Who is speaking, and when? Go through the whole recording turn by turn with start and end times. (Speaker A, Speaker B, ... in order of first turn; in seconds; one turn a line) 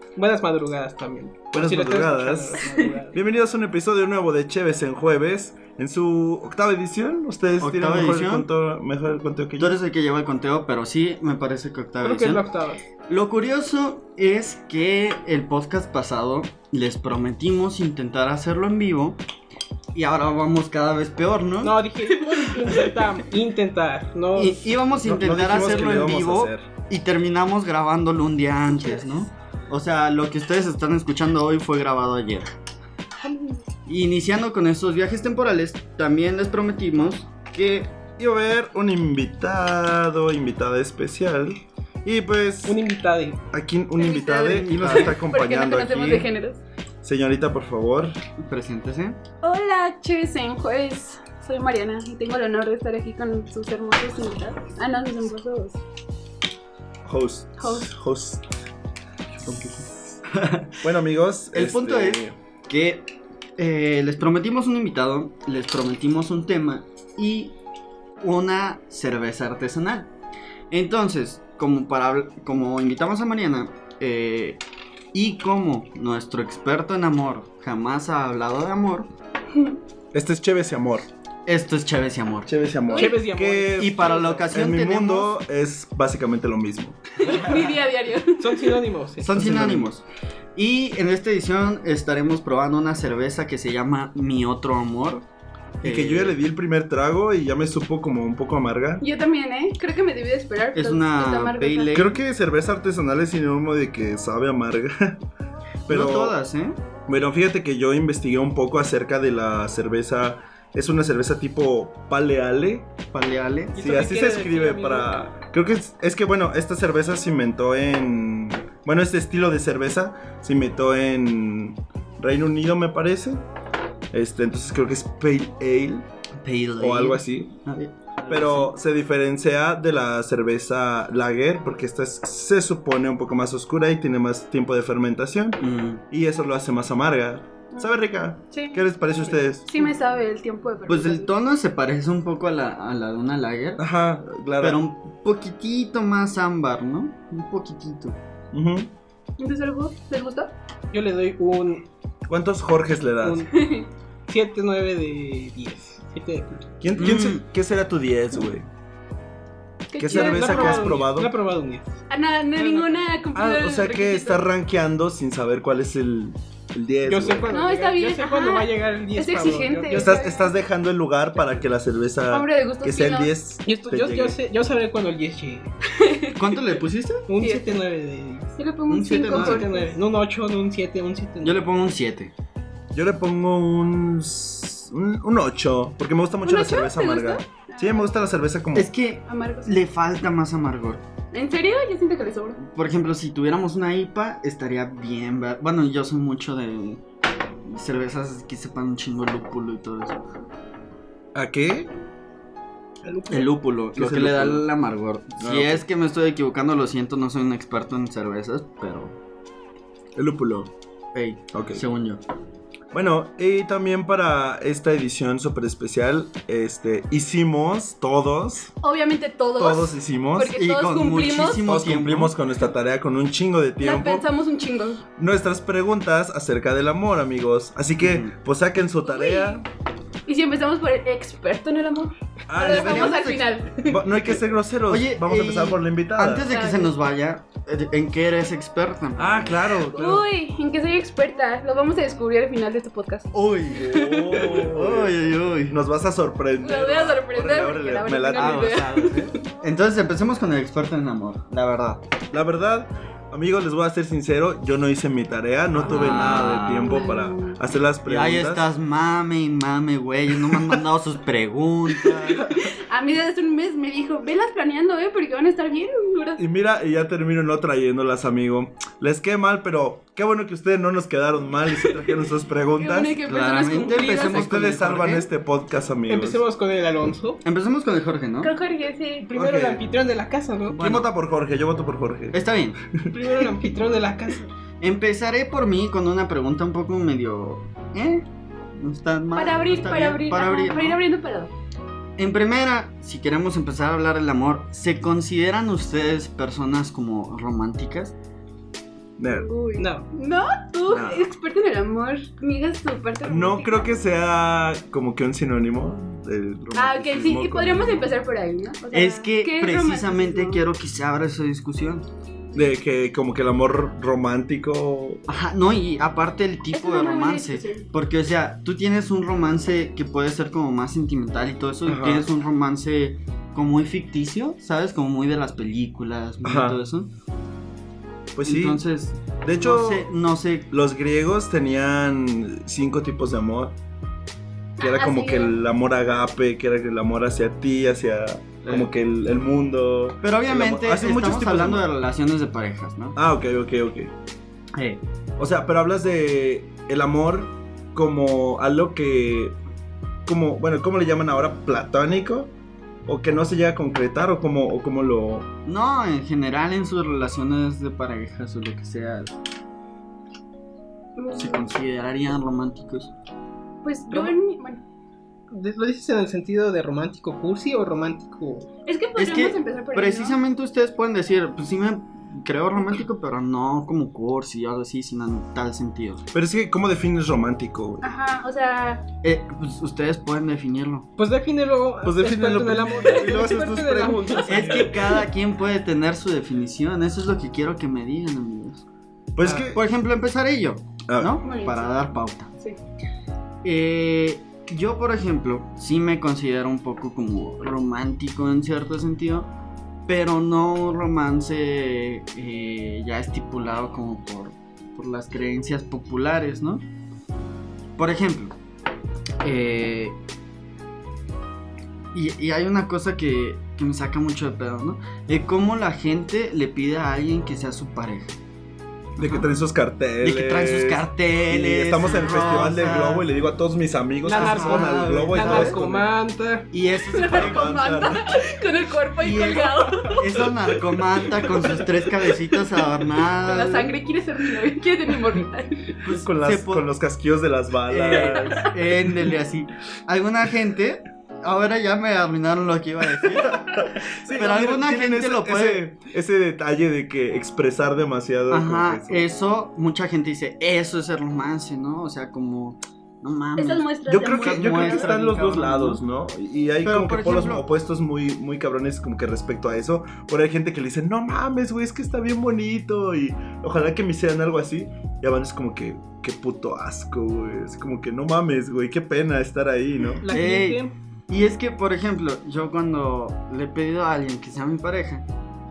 Speaker A: 0.2-3.2
Speaker B: 1.5-9.8
Speaker C: 7.6-8.5
Speaker C: 9.6-12.4
Speaker A: 12.0-12.8
Speaker C: 13.1-19.2
Speaker C: 19.9-21.8
Speaker A: 21.6-24.6
Speaker D: 22.3-22.7
Speaker C: 24.4-32.5
Speaker B: 25.0-26.7
Speaker C: 33.9-37.9
Speaker B: 38.2-42.8
Speaker A: 42.6-43.4
Speaker B: 43.5-46.3
Speaker D: 44.0-46.6
Speaker C: 44.3-45.2
Speaker B: 47.0-48.2
Speaker C: 48.4-49.2
Speaker D: 49.4-55.8
Speaker B: 57.0-58.5
Speaker D: 57.6-57.9
Speaker B: 59.4-60.2
Speaker C: 60.3-60.8
Speaker B: 60.8-62.4
Speaker C: 61.5-67.6
Speaker C: 68.2-70.1
Speaker C: 70.7-74.6
Speaker C: 75.1-79.1
Speaker B: 80.1-81.1
Speaker C: 81.5-82.5
Speaker B: 82.5-87.4
Speaker D: 82.9-83.2
Speaker A: 82.9-84.5
Speaker C: 83.8-85.3
Speaker D: 87.2-88.8
Speaker A: 88.4-89.5
Speaker C: 89.2-90.0
Speaker B: 89.3-89.9
Speaker C: 90.5-95.2
Speaker C: 95.8-96.4
Speaker B: 95.8-99.0
Speaker D: 99.0-102.0
Speaker C: 100.7-102.2
Speaker B: 101.9-105.2
Speaker B: 105.9-106.3
Speaker C: 105.9-106.8
Speaker B: 107.1-113.0
Speaker C: 113.1-113.8
Speaker A: 113.8-115.1
Speaker B: 113.8-123.5
Speaker B: 124.1-126.1
Speaker C: 126.4-128.8
Speaker B: 126.8-127.5
Speaker B: 128.3-135.6
Speaker C: 135.6-136.0
Speaker B: 136.1-139.7
Speaker D: 138.5-138.8
Speaker D: 139.7-141.4
Speaker C: 140.9-143.8
Speaker B: 143.8-144.8
Speaker C: 144.6-148.2
Speaker B: 148.5-148.9
Speaker D: 149.4-150.5
Speaker A: 150.9-151.9
Speaker B: 152.3-153.5
Speaker A: 153.2-153.5
Speaker D: 153.5-153.9
Speaker A: 154.3-156.7
Speaker B: 156.8-158.7
Speaker C: 157.0-157.4
Speaker D: 159.9-160.9
Speaker B: 160.0-161.3
Speaker A: 160.1-162.0
Speaker D: 162.1-164.5
Speaker A: 162.6-163.1
Speaker B: 163.3-167.5
Speaker A: 167.1-170.4
Speaker D: 167.5-170.5
Speaker B: 169.9-174.4
Speaker D: 172.3-173.3
Speaker A: 173.7-175.7
Speaker D: 175.9-176.6
Speaker C: 176.4-177.3
Speaker A: 177.3-178.5
Speaker D: 177.4-177.8
Speaker D: 178.6-179.9
Speaker C: 178.9-179.7
Speaker A: 179.2-181.7
Speaker C: 181.4-182.3
Speaker B: 182.9-188.9
Speaker D: 186.4-188.3
Speaker C: 188.8-191.0
Speaker D: 189.2-189.8
Speaker D: 191.3-192.6
Speaker C: 192.6-197.0
Speaker C: 197.7-200.2
Speaker B: 201.3-201.9
Speaker A: 203.1-203.3
Speaker B: 203.2-203.4
Speaker C: 203.3-209.2
Speaker B: 203.9-204.6
Speaker B: 205.4-205.8
Speaker B: 210.2-210.7
Speaker C: 211.1-212.2
Speaker B: 211.5-211.8
Speaker B: 212.9-218.7
Speaker D: 218.8-221.7
Speaker B: 219.6-220.6
Speaker C: 220.5-222.3
Speaker B: 221.5-224.3
Speaker D: 223.8-225.0
Speaker B: 225.2-229.7
Speaker C: 228.0-228.3
Speaker D: 229.0-229.6
Speaker D: 230.3-234.1
Speaker B: 232.5-236.5
Speaker C: 232.6-233.5
Speaker C: 234.9-239.8
Speaker D: 236.4-236.9
Speaker B: 239.2-240.3
Speaker D: 239.9-243.9
Speaker C: 243.3-245.8
Speaker B: 243.7-245.1
Speaker B: 245.7-248.8
Speaker D: 246.6-249.4
Speaker C: 248.3-252.0
Speaker B: 252.3-258.6
Speaker C: 255.8-257.1
Speaker D: 256.1-257.6
Speaker C: 258.1-262.5
Speaker D: 262.7-266.4
Speaker B: 266.4-273.2
Speaker D: 272.8-274.5
Speaker C: 273.2-275.3
Speaker B: 274.1-276.4
Speaker A: 276.1-277.4
Speaker C: 277.4-278.5
Speaker D: 278.4-279.3
Speaker A: 279.2-280.8
Speaker B: 279.4-279.8
Speaker C: 280.7-281.1
Speaker B: 280.8-282.4
Speaker C: 282.3-282.8
Speaker B: 283.0-283.4
Speaker A: 283.1-284.5
Speaker C: 284.8-291.0
Speaker D: 289.3-291.5
Speaker C: 292.2-298.1
Speaker B: 299.2-299.5
Speaker D: 299.3-303.9
Speaker A: 299.8-300.1
Speaker B: 300.9-301.3
Speaker B: 303.3-308.2
Speaker D: 306.8-310.6
Speaker C: 308.9-312.1
Speaker B: 312.5-315.2
Speaker C: 315.3-327.1
Speaker D: 316.7-317.9
Speaker B: 321.9-322.2
Speaker B: 326.4-326.8
Speaker B: 328.3-328.8
Speaker C: 328.4-330.7
Speaker B: 329.4-330.1
Speaker B: 330.7-333.8
Speaker D: 334.8-335.6
Speaker B: 334.8-341.8
Speaker C: 338.6-338.9
Speaker C: 340.2-343.2
Speaker B: 343.2-344.1
Speaker C: 344.8-345.0
Speaker B: 345.4-349.6
Speaker B: 350.3-352.5
Speaker B: 353.1-355.5
Speaker C: 355.7-359.4
Speaker D: 361.2-361.7
Speaker C: 361.4-363.1
Speaker D: 363.8-364.8
Speaker A: 365.5-368.7
Speaker D: 368.9-370.4
Speaker C: 369.2-376.2
Speaker B: 376.3-378.1
Speaker D: 378.0-379.1
Speaker C: 379.2-381.1
Speaker A: 381.2-385.1
Speaker B: 382.0-385.2
Speaker D: 383.0-383.6
Speaker C: 384.5-388.9
Speaker B: 389.4-389.8
Speaker C: 389.6-392.5
Speaker B: 391.1-391.4
Speaker D: 391.4-391.9
Speaker C: 393.6-399.5
Speaker C: 400.1-406.8
Speaker C: 408.0-408.6
Speaker C: 409.4-410.2
Speaker C: 412.1-418.4
Speaker C: 419.2-419.5
Speaker B: 419.2-426.1
Speaker C: 420.2-423.3
Speaker A: 424.2-426.7
Speaker C: 424.3-425.8
Speaker C: 426.7-427.8
Speaker D: 427.1-430.4
Speaker B: 427.2-428.4
Speaker C: 429.2-434.0
Speaker D: 433.4-435.9
Speaker C: 436.0-436.9
Speaker B: 436.1-438.7
Speaker C: 437.9-445.9
Speaker D: 438.1-438.7
Speaker B: 443.5-449.2
Speaker C: 448.5-456.0
Speaker D: 453.6-455.3
Speaker B: 454.1-470.2
Speaker C: 456.8-457.6
Speaker A: 470.2-470.9
Speaker C: 470.3-475.3